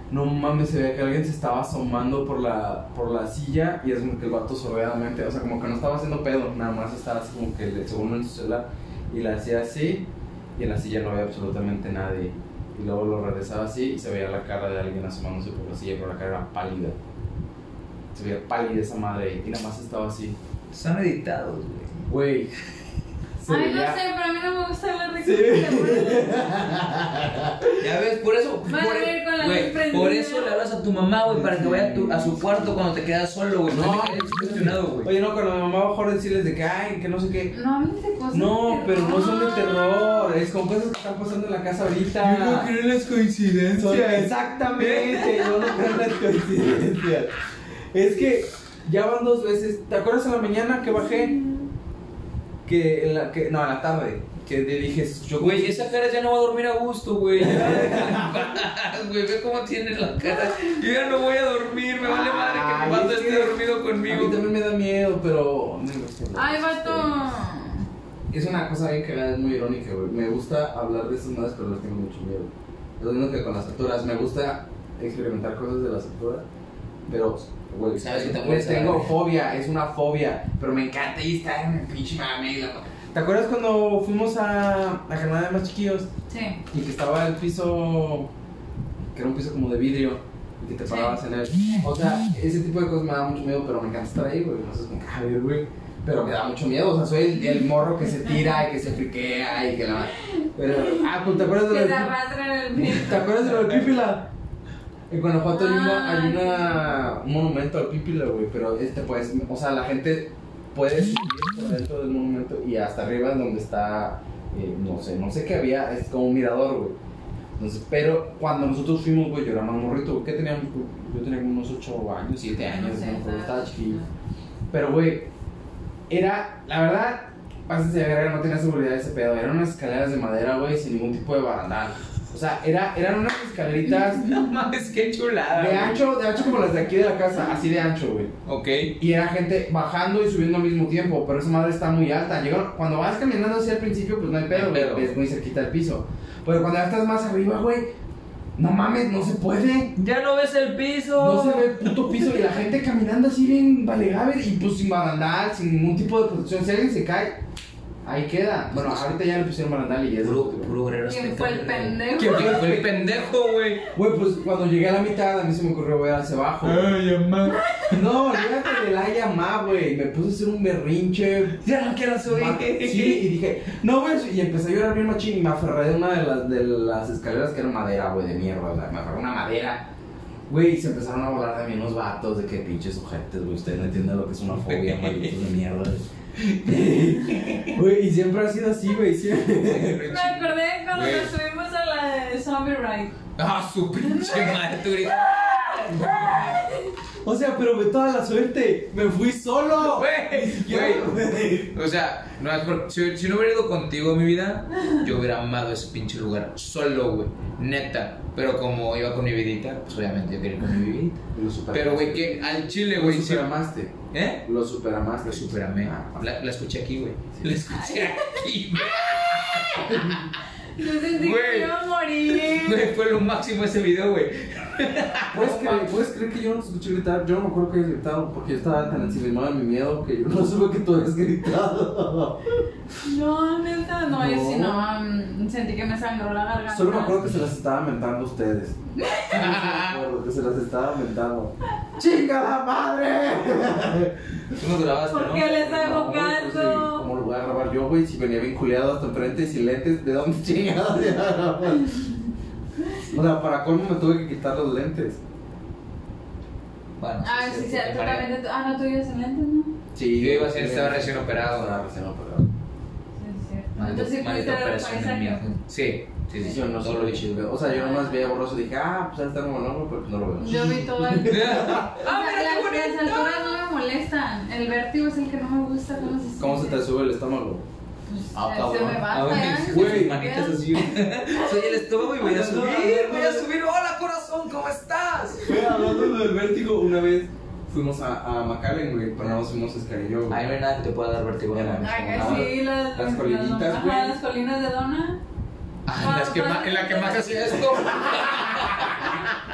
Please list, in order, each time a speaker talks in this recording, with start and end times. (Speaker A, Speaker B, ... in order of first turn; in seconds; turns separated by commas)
Speaker A: 0.1-16.9, Speaker A: 18.1-20.4, Speaker B: 20.7-22.0, Speaker A: 22.1-22.5, Speaker A: 23.4-24.0, Speaker C: 23.5-26.4, Speaker A: 25.2-27.9, Speaker B: 27.8-35.1, Speaker C: 28.7-30.5, Speaker A: 31.3-32.5, Speaker A: 33.7-37.5, Speaker C: 37.5-40.3, Speaker A: 38.3-42.7, Speaker B: 42.2-45.7, Speaker A: 43.8-47.3, Speaker A: 47.9-51.3, Speaker C: 51.3-51.6, Speaker A: 52.6-55.9, Speaker B: 55.3-64.4, Speaker A: 57.4-58.6, Speaker C: 60.3-60.8, Speaker A: 62.0-67.2, Speaker C: 66.3-67.8, Speaker A: 68.3-76.4, Speaker A: 77.1-86.1, Speaker B: 78.0-79.1, Speaker C: 86.3-86.6, Speaker A: 86.7-88.3, Speaker A: 89.1-102.1, Speaker C: 90.9-91.2, Speaker C: 100.2-103.5, Speaker A: 102.8-104.3, Speaker A: 105.1-117.0, Speaker C: 105.5-106.9, Speaker A: 117.6-124.1, Speaker C: 122.7-124.1, Speaker A: 124.7-125.3, Speaker A: 126.1-134.3, Speaker B: 134.0-136.0, Speaker A: 135.5-138.3, Speaker B: 138.4-138.9, Speaker A: 139.0-147.9, Speaker B: 144.5-145.1, Speaker A: 148.6-149.9, Speaker B: 150.0-152.3, Speaker A: 151.2-157.4, Speaker A: 158.0-160.8, Speaker B: 158.7-159.1, Speaker B: 160.2-163.8, Speaker C: 161.1-162.7, Speaker A: 162.2-163.3, Speaker A: 163.9-166.9, Speaker B: 166.6-167.8, Speaker C: 167.5-167.9, Speaker A: 167.9-171.6, Speaker B: 171.6-173.2, Speaker A: 172.2-179.9, Speaker A: 180.5-190.1, Speaker B: 184.6-185.4, Speaker B: 186.7-187.8, Speaker B: 189.6-191.3, Speaker C: 190.1-193.1, Speaker B: 193.4-196.6, Speaker C: 194.1-194.6, Speaker C: 195.3-196.9, Speaker A: 195.6-196.6, Speaker A: 197.2-201.8, Speaker B: 199.8-201.1, Speaker B: 201.7-211.2, Speaker A: 211.3-216.3, Speaker B: 211.7-213.5, Speaker B: 214.1-214.4, Speaker B: 215.2-220.3, Speaker A: 217.3-217.6, Speaker C: 217.7-218.4, Speaker C: 219.5-220.0, Speaker A: 219.9-220.2, Speaker C: 220.7-222.9, Speaker B: 221.1-225.9, Speaker A: 225.3-232.6, Speaker C: 233.0-237.2, Speaker A: 234.1-234.9, Speaker A: 236.7-238.8, Speaker C: 239.0-239.4, Speaker A: 239.3-244.6, Speaker B: 239.3-240.0, Speaker B: 244.5-246.6, Speaker C: 245.1-247.1, Speaker A: 246.1-252.1, Speaker A: 253.0-255.2, Speaker B: 257.0-258.3, Speaker C: 257.2-259.7, Speaker A: 259.9-262.5, Speaker B: 260.2-261.7, Speaker C: 263.2-265.4, Speaker B: 263.8-267.2, Speaker A: 266.4-271.9, Speaker C: 267.7-268.2, Speaker C: 270.4-276.8, Speaker B: 271.2-273.6, Speaker A: 276.4-277.6, Speaker C: 278.1-281.7, Speaker B: 278.3-285.9, Speaker A: 279.5-280.2, Speaker A: 282.2-283.5, Speaker A: 285.4-290.4, Speaker B: 290.3-292.5, Speaker A: 291.5-294.2, Speaker C: 291.8-295.2, Speaker B: 295.9-299.4, Speaker C: 296.0-297.8, Speaker A: 297.8-299.2